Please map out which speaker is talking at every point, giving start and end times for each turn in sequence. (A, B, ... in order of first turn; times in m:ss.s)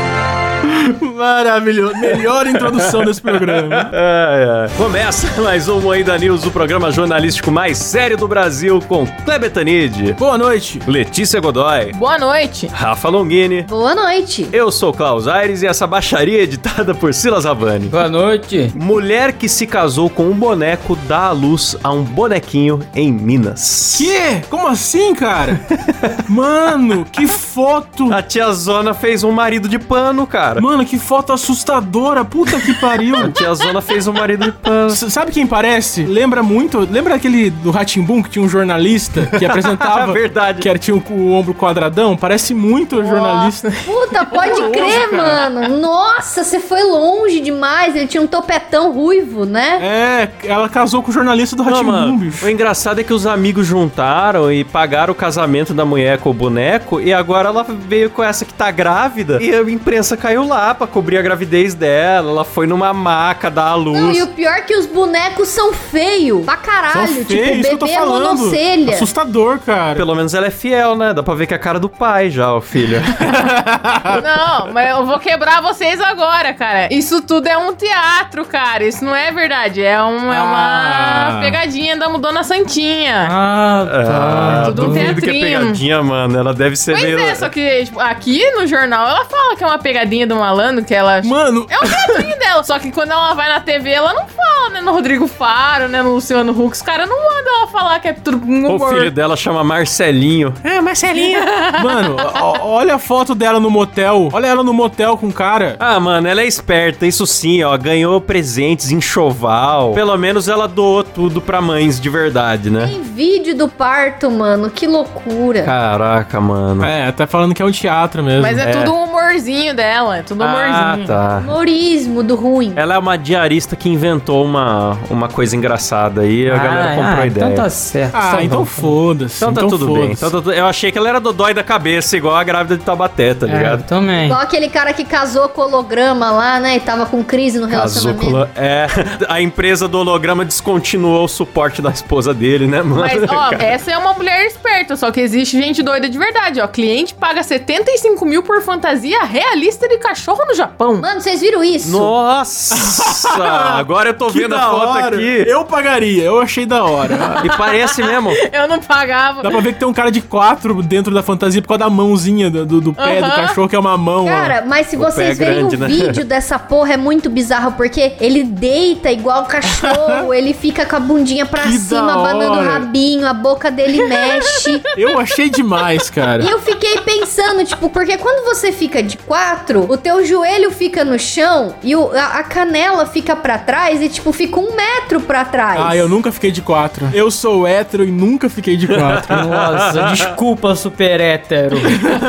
0:00.6-0:03.9 A
0:02.0-0:10.2 B
0:10.2-0:10.8 A
0:10.9-0:12.0 B
0:11.9-0:12.7 C
0:12.7-0:13.7 B
0:13.6-0:14.6 D
0:14.5-0:18.0 B
0:17.9-0:18.7 E
0:18.7-0:24.1 B
0:24.0-0:25.6 A
0:25.6-0:26.2 B
0:26.3-0:28.2 A
0:28.1-0:30.7 B
0:30.6-0:33.4 A
0:32.6-0:35.0 B
0:34.9-0:43.7 A
0:39.2-0:40.7 B
0:43.1-0:43.7 C
0:43.9-0:49.9 D
0:44.3-0:45.5 A
0:49.8-0:52.5 A
0:51.6-1:04.2 B
1:03.9-1:09.1 D
1:06.9-1:10.1 A
1:09.9-1:13.2 B
1:13.2-1:14.2 A
1:14.1-1:23.4 C
1:20.3-1:21.6 A
1:23.2-1:25.2 E
1:23.8-1:27.5 B
1:24.5-1:25.8 C
1:26.9-1:39.1 C
1:31.2-1:32.2 A
1:38.7-1:41.5 B
1:41.1-1:42.2 C
1:41.8-1:45.8 A
1:45.8-1:52.9 B
1:52.8-1:55.7 D
1:55.6-1:56.9 B
1:56.8-1:58.6 A
1:58.4-2:00.9 C
1:58.6-1:58.9 B
2:00.4-2:01.5 B
2:00.8-2:01.2 E
2:01.4-2:02.8 D
2:02.8-2:07.7 B
2:06.4-2:09.0 E
2:08.1-2:10.3 A
2:09.4-2:13.9 B
2:13.5-2:14.4 E
2:14.2-2:18.4 D
2:17.7-2:23.7 B
2:23.0-2:31.1 C
2:31.0-2:32.2 D
2:31.8-2:35.5 B
2:32.7-2:37.6 A
2:37.4-2:38.4 B
2:38.3-2:39.6 C
2:39.4-2:44.6 A
2:43.0-2:43.5 C
2:44.2-2:54.9 D
2:45.0-2:46.2 B
2:49.7-2:50.2 A
2:51.6-2:52.9 A
2:55.0-2:56.5 A
2:56.4-3:06.1 D
3:05.8-3:09.4 A
3:08.9-3:10.3 B
3:09.3-3:11.9 E